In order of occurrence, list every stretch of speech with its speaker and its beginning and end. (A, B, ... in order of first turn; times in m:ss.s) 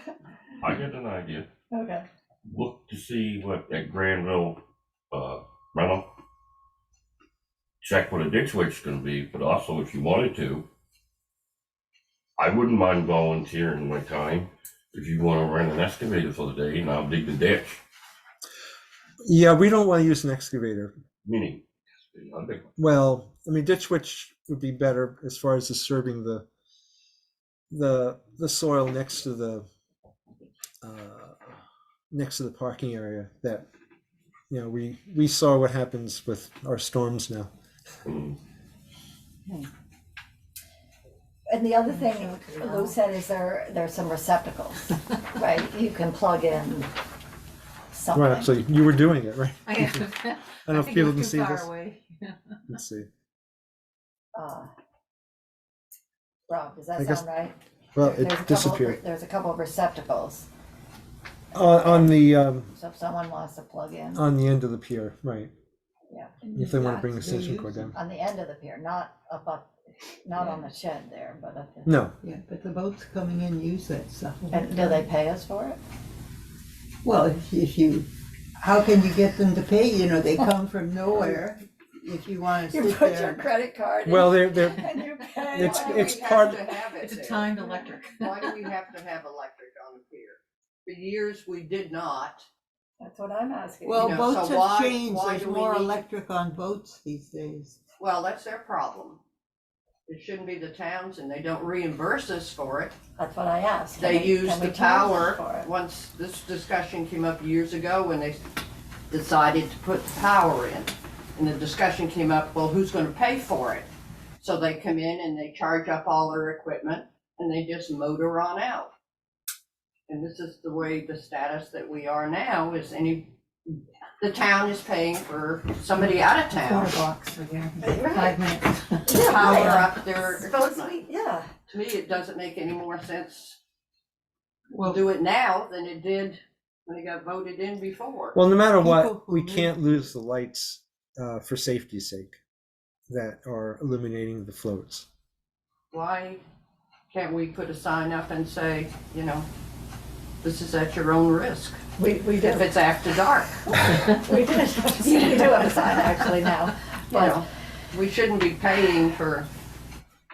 0:00.6-0:01.4 A
0:01.7-0:02.0 B
0:02.5-0:04.6 A
0:05.1-0:06.1 A
0:07.8-0:10.6 A
0:12.4-0:17.8 A
0:19.2-0:20.9 C
0:21.2-0:22.7 A
0:22.8-0:26.4 C
0:27.7-0:29.7 C
0:30.8-0:31.6 C
0:32.1-0:33.7 C
0:34.5-0:37.5 C
0:38.0-0:38.3 A
0:41.5-0:46.9 B
0:42.0-0:42.9 D
0:47.9-0:48.5 B
0:48.1-0:51.7 C
0:49.6-0:52.6 D
0:52.7-0:53.1 C
0:54.3-0:54.7 B
0:56.5-1:00.4 B
0:57.0-0:57.3 C
0:57.9-0:59.0 C
1:01.5-1:02.7 C
1:01.6-1:04.2 B
1:04.1-1:05.5 C
1:06.1-1:06.4 B
1:06.4-1:07.9 E
1:06.5-1:08.0 C
1:07.9-1:09.7 B
1:10.2-1:12.0 B
1:11.8-1:12.2 C
1:12.2-1:15.0 E
1:14.5-1:15.8 B
1:17.0-1:23.4 E
1:22.7-1:26.5 B
1:24.0-1:24.9 C
1:25.5-1:26.6 C
1:25.5-1:32.4 F
1:27.0-1:28.5 D
1:33.0-1:34.2 B
1:33.8-1:37.8 E
1:34.0-1:36.0 F
1:38.0-1:39.2 F
1:40.1-1:42.9 F
1:43.2-1:45.7 B
1:44.0-1:48.4 F
1:49.1-1:53.9 F
1:54.4-1:58.9 F
2:00.1-2:03.3 F
2:04.2-2:06.9 F
2:06.6-2:09.9 D
2:07.8-2:08.4 B
2:09.0-2:11.5 B
2:09.2-2:11.0 F
2:11.7-2:13.6 F
2:14.7-2:15.0 E
2:14.8-2:18.4 F
2:18.3-2:22.3 C
2:18.8-2:19.7 E
2:23.1-2:25.1 C
2:25.9-2:26.4 F
2:27.1-2:29.5 F
2:30.4-2:31.8 F
2:32.0-2:32.7 B
2:32.4-2:33.6 F
2:33.6-2:37.4 B
2:37.1-2:39.5 F